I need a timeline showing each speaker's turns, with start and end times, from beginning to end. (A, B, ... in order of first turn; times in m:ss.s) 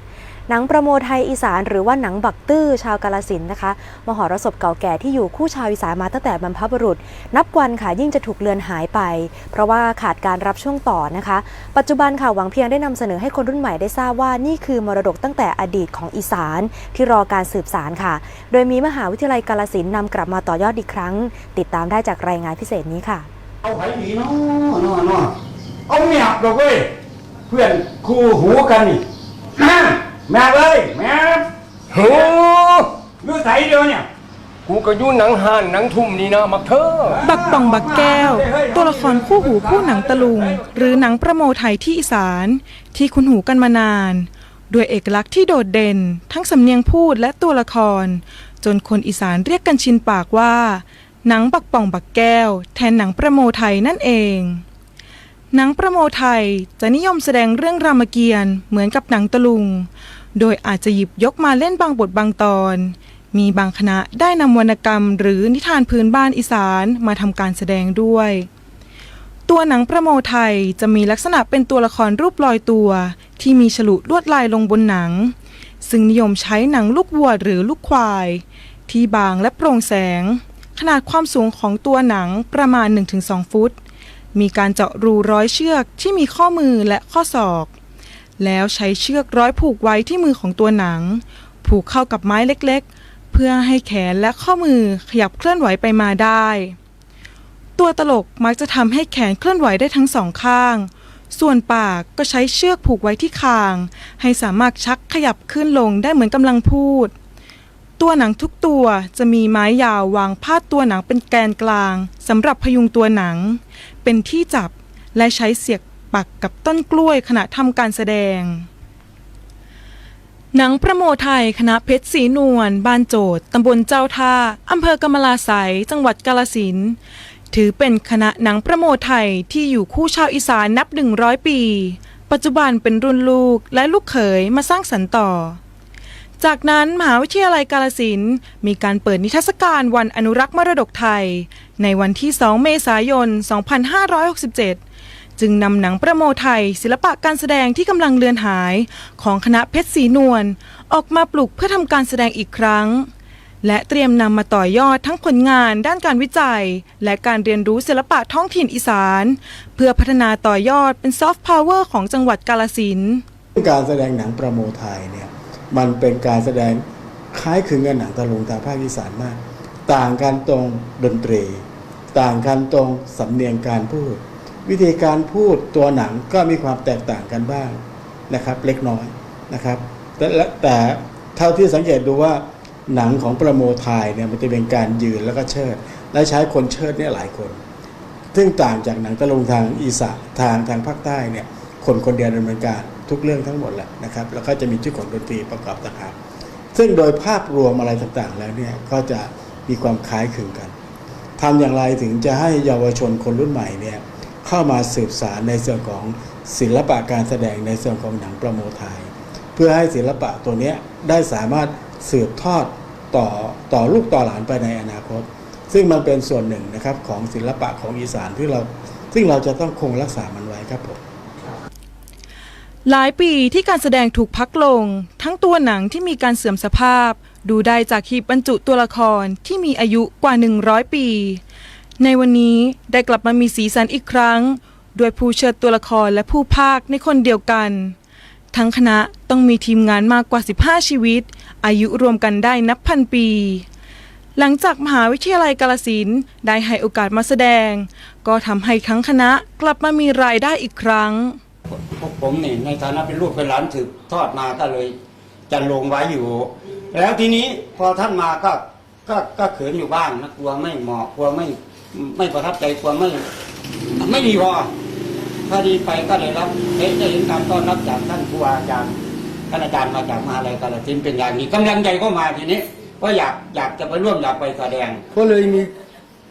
0:00.5-0:23.3 A
0:23.6-0:25.3 B
0:25.9-0:26.9 B
0:27.5-0:29.0 B
0:29.6-0:31.5 B
0:31.9-0:32.8 C
0:33.1-0:34.1 B
0:34.7-0:37.3 C
0:37.2-0:54.6 D
0:37.2-0:39.1 B
0:55.5-1:08.5 D
1:09.5-1:23.8 D
1:24.3-1:27.7 D
1:28.4-1:36.8 D
1:37.8-1:47.1 D
1:48.0-1:58.7 D
2:00.5-2:07.0 D
2:07.5-2:15.6 D
2:16.4-2:24.8 D
2:25.4-2:33.1 D
2:33.6-2:43.2 D
2:43.6-3:07.6 E
3:08.3-3:16.2 E
3:16.7-3:20.7 E
3:21.4-3:41.0 E
3:42.9-3:51.4 D
3:52.0-3:58.0 D
3:58.5-4:03.7 D
4:04.4-4:11.4 D
4:11.9-4:15.0 B
4:15.5-4:23.2 B
4:24.0-4:24.7 B
4:25.5-4:29.0 B
4:29.5-4:35.0 B
4:35.1-4:35.7 C